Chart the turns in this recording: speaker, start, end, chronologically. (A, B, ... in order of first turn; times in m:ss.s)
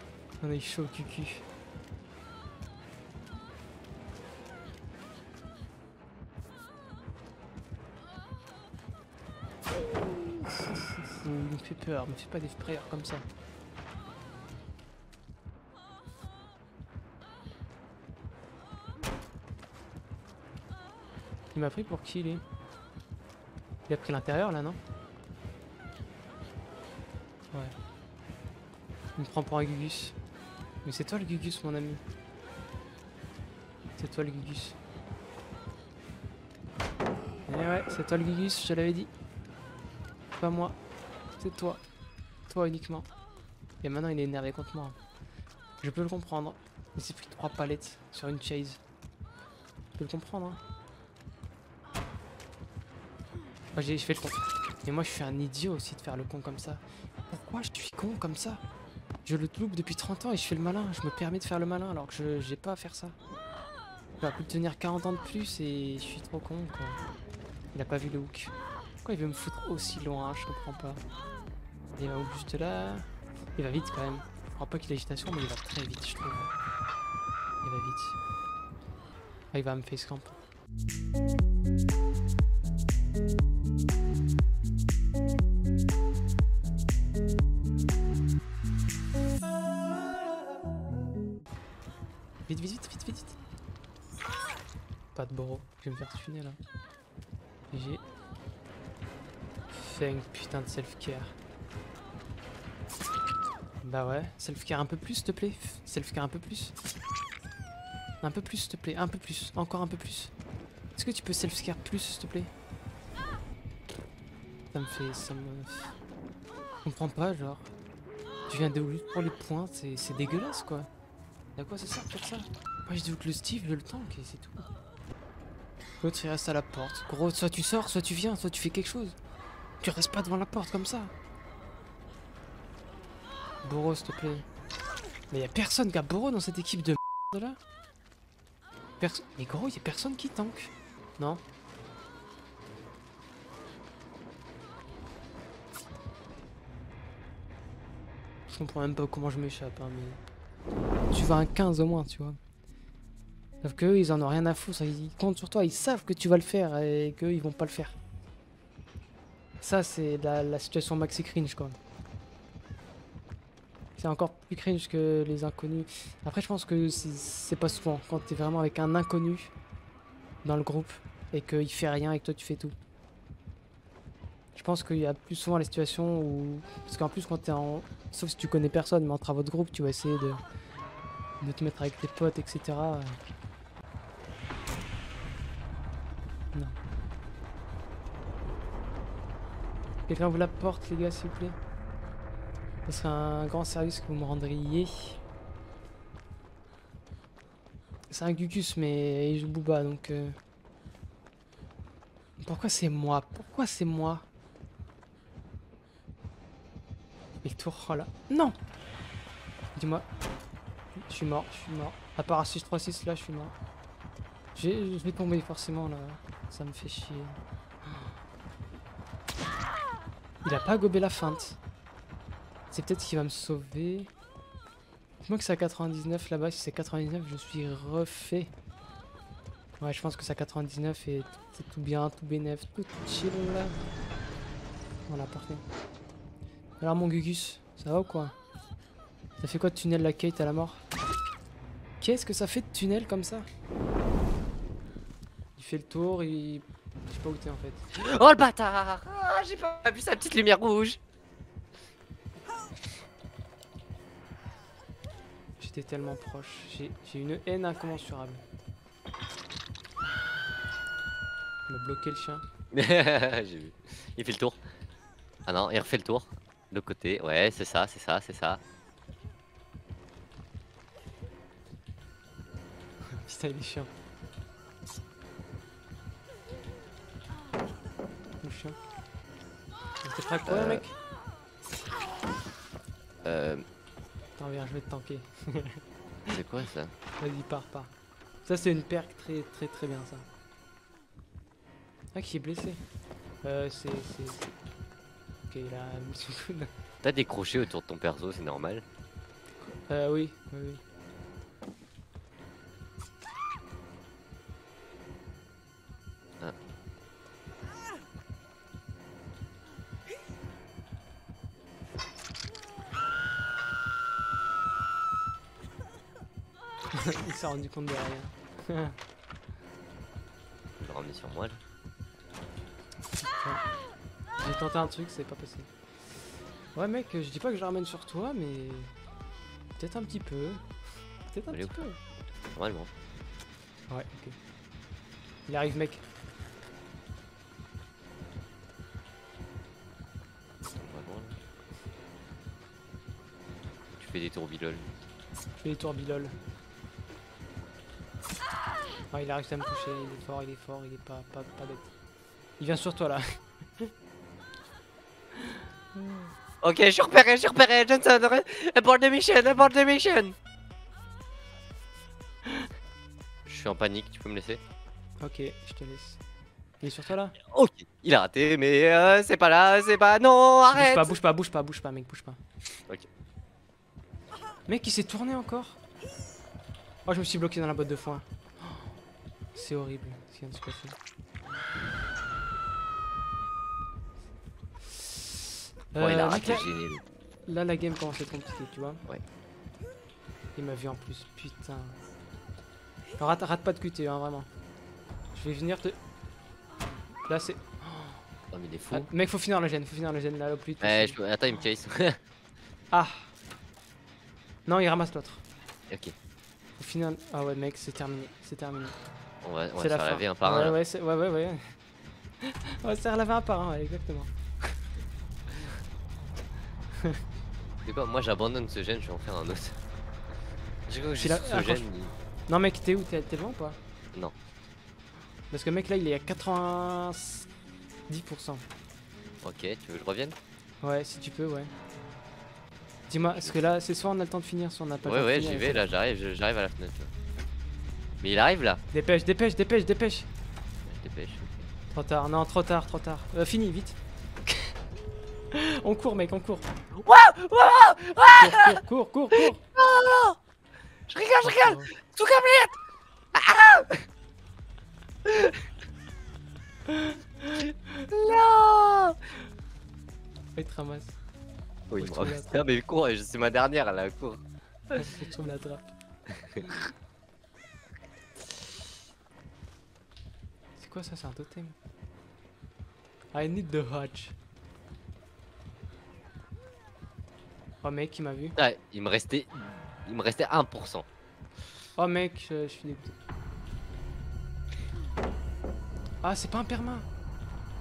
0:00.4-0:01.4 A
0:11.1-0:13.3 A
0:21.5-0:22.4 A
0:23.9-0:24.8 A
0:29.2-0:30.2 A
0:30.8-0:32.0 A
0:34.0-0:34.8 A
0:37.4-0:39.1 A
0:40.4-0:40.8 A
0:41.4-0:41.8 A
0:42.5-0:43.1 A
0:43.8-0:45.0 A
0:45.8-0:48.8 A
0:50.0-0:50.6 A
0:53.7-0:58.6 A
0:59.2-1:03.2 A
1:04.2-1:07.0 A
1:07.7-1:11.0 A
1:12.0-1:16.5 A
1:17.6-1:18.2 A
1:19.5-1:20.4 A
1:32.5-1:33.4 A
1:35.1-1:36.6 A
1:37.7-1:38.0 A
1:39.7-1:41.4 A
1:43.8-1:46.7 A
1:48.2-1:50.3 A
1:50.9-1:52.5 A
1:54.7-1:55.9 A
1:56.8-1:57.7 A
1:58.5-2:00.9 A
2:01.6-2:04.7 A
2:06.0-2:09.2 A
2:09.8-2:11.1 A
2:13.6-2:14.5 A
2:15.3-2:17.6 A
2:19.0-2:21.4 A
2:28.5-2:30.2 A
2:31.1-2:32.4 A
2:33.6-2:38.0 A
2:39.6-2:41.8 A
2:44.0-2:49.5 A
2:50.4-2:52.7 A
2:54.5-3:00.4 A
3:01.4-3:03.2 A
3:10.1-3:11.6 A
3:12.8-3:15.2 A
3:18.1-3:20.4 A
3:22.4-3:24.2 A
3:27.4-3:28.6 A
3:29.7-3:30.1 A
3:31.0-3:33.5 A
3:34.5-3:37.4 A
3:40.4-3:41.6 A
3:42.7-3:44.1 A
3:45.2-3:48.5 A
3:49.8-3:53.8 A
3:55.1-3:55.6 A
3:56.8-3:58.3 A
3:59.4-4:00.8 A
4:02.0-4:03.4 A
4:05.6-4:07.8 A
4:07.9-4:11.0 B
4:15.6-4:18.4 A
4:21.7-4:22.4 A
4:22.7-4:24.6 B
4:25.4-4:28.6 B
4:33.2-4:33.9 A
4:38.4-4:38.8 A
4:40.0-4:41.0 A
4:40.4-4:40.8 B
4:43.2-4:43.6 B
4:44.4-4:45.8 A
4:46.3-4:46.9 B
4:47.2-4:47.9 A
4:48.4-4:50.3 A
4:52.1-4:52.8 A
4:53.4-4:54.5 A
4:55.5-4:56.7 A
4:57.0-4:58.8 B
4:59.6-5:00.8 A
5:16.9-5:19.0 A
5:20.8-5:21.6 B
5:23.2-5:23.6 A
5:24.4-5:25.7 A
5:26.7-5:28.9 A
5:29.8-5:30.6 A
5:31.3-5:32.0 A
5:32.5-5:32.9 B
5:33.9-5:34.4 A
5:35.5-5:36.0 A
5:40.8-5:41.4 B
5:44.0-5:44.9 B
5:45.6-5:46.3 A
5:49.1-5:51.9 A
5:52.6-5:53.9 A
5:55.5-5:56.3 A
5:56.6-6:00.3 B
6:03.4-6:04.6 B
6:05.2-6:06.2 A
6:06.8-6:07.3 A
6:07.5-6:11.2 B
6:10.7-6:12.4 A
6:14.7-6:15.8 A
6:17.0-6:18.8 A
6:19.5-6:21.0 A
6:25.0-6:25.3 A
6:25.9-6:26.7 A
6:26.0-6:27.0 B
6:27.4-6:29.0 A
6:30.6-6:32.0 A
6:33.2-6:34.5 A
6:35.3-6:36.0 A
6:37.3-6:38.2 A
6:38.5-6:39.1 B
6:38.9-6:41.2 A
6:40.8-6:42.2 B
6:42.9-6:43.3 A
6:44.6-6:45.4 A
6:46.8-6:49.0 A
6:49.4-6:50.8 B
6:49.8-6:51.7 A
6:52.4-6:54.3 A
6:57.8-6:59.8 B
7:00.9-7:02.1 B
7:01.2-7:01.9 A
7:02.5-7:03.8 A
7:05.5-7:07.5 A
7:08.1-7:08.6 A
7:09.4-7:10.4 B
7:10.8-7:11.7 A
7:13.1-7:15.9 A
7:15.0-7:17.1 B
7:18.2-7:18.8 B
7:18.9-7:20.3 A
7:20.8-7:21.7 B
7:21.9-7:24.7 A
7:25.5-7:26.7 A
7:27.0-7:28.8 B
7:28.3-7:29.6 A
7:29.3-7:30.4 B
7:31.1-7:32.8 B
7:31.4-7:31.9 A
7:33.3-7:34.0 B
7:35.2-7:35.6 B
7:36.9-7:38.1 A
7:38.1-7:39.2 B
7:40.5-7:41.2 A
7:41.9-7:45.1 B
7:41.9-7:42.7 A
7:45.0-7:45.9 A
7:46.4-7:46.8 B
7:50.8-7:51.8 A
7:53.3-7:54.3 A
7:57.8-7:58.6 A
7:58.6-8:01.0 B
8:02.0-8:03.1 A
8:06.2-8:07.1 A